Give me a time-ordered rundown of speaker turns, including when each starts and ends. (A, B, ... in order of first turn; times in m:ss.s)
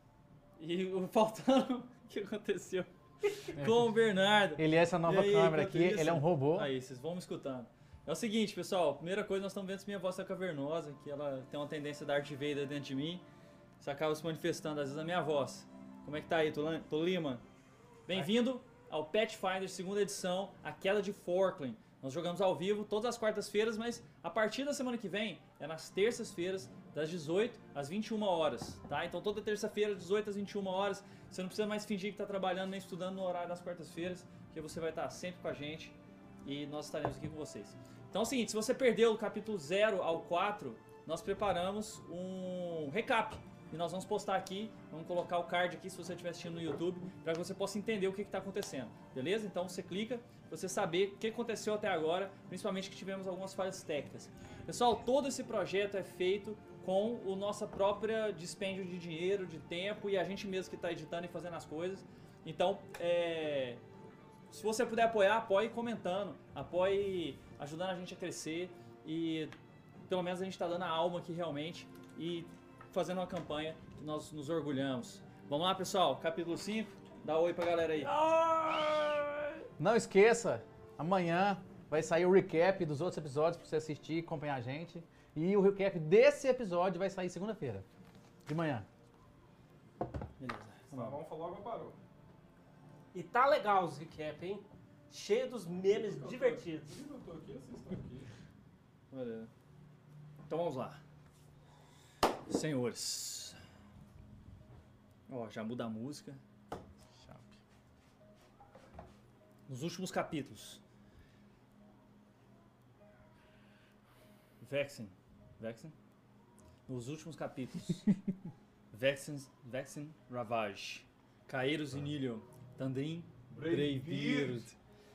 0:00.6-0:13.2 A
0:03.6-0:03.9 B
0:04.6-0:06.7 B
0:13.8-0:17.4 A
0:18.1-1:03.8 A
1:04.5-1:09.5 A
1:10.1-1:18.1 A
1:18.0-1:19.6 C
1:19.8-1:27.8 B
1:28.4-1:28.9 B
1:30.4-1:31.2 A
1:30.9-1:32.0 D
1:33.1-1:36.9 C
1:35.9-1:38.3 D
1:39.1-1:39.5 A
1:40.5-1:41.0 A
1:42.5-1:43.6 A
1:45.3-1:46.4 A
1:47.2-1:47.6 B
1:49.7-1:50.8 A
1:54.6-1:55.9 A
1:56.9-1:58.1 A
1:58.9-2:04.8 A
2:03.5-2:04.7 D